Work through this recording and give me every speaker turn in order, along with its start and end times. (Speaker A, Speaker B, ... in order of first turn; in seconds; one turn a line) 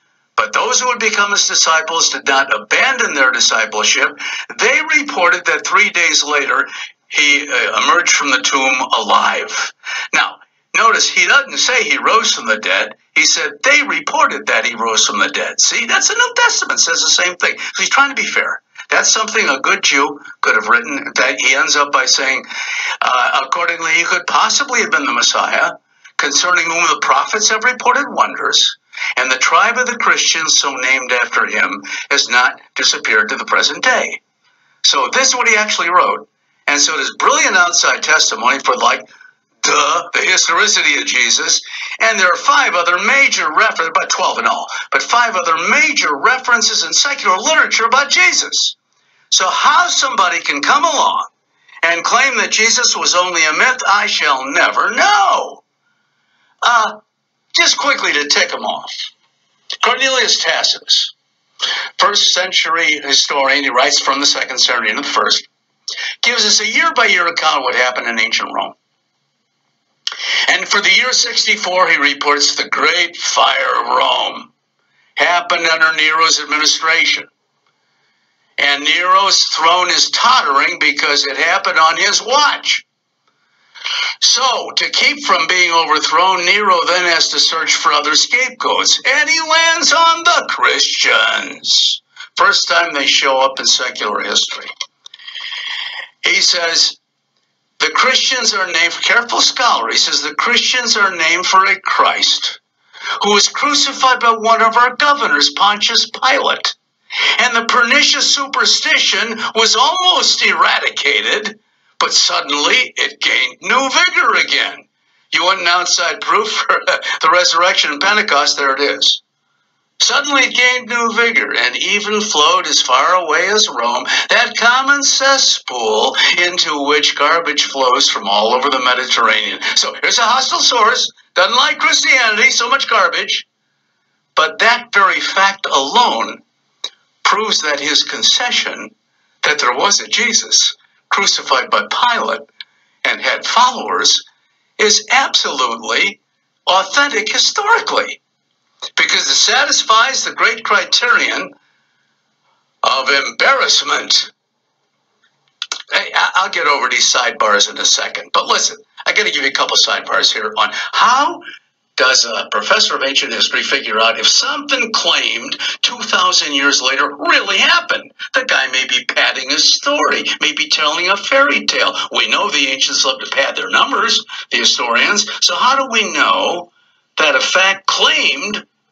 Speaker A: 0.4-22.5
Speaker A: 23.0-34.2
Speaker A: 34.8-39.1
Speaker A: 39.6-48.8
Speaker A: 49.3-51.3
Speaker A: 51.8-55.6
Speaker A: 56.6-57.0
Speaker A: 57.5-59.1
Speaker A: 59.8-61.1
Speaker A: 62.0-65.5
Speaker A: 66.2-68.8
Speaker A: 70.5-74.5
Speaker A: 75.2-77.3
Speaker A: 78.6-82.8
Speaker A: 84.2-94.7
Speaker A: 96.2-97.0
Speaker A: 97.8-102.6
Speaker A: 103.2-106.8
Speaker A: 107.4-119.2
Speaker A: 120.0-133.5
Speaker A: 134.4-136.4
Speaker A: 137.2-142.5
Speaker A: 143.0-144.2
Speaker A: 144.8-148.2
Speaker A: 149.0-151.5
Speaker A: 152.8-154.3
Speaker A: 155.9-161.4
Speaker A: 162.0-178.6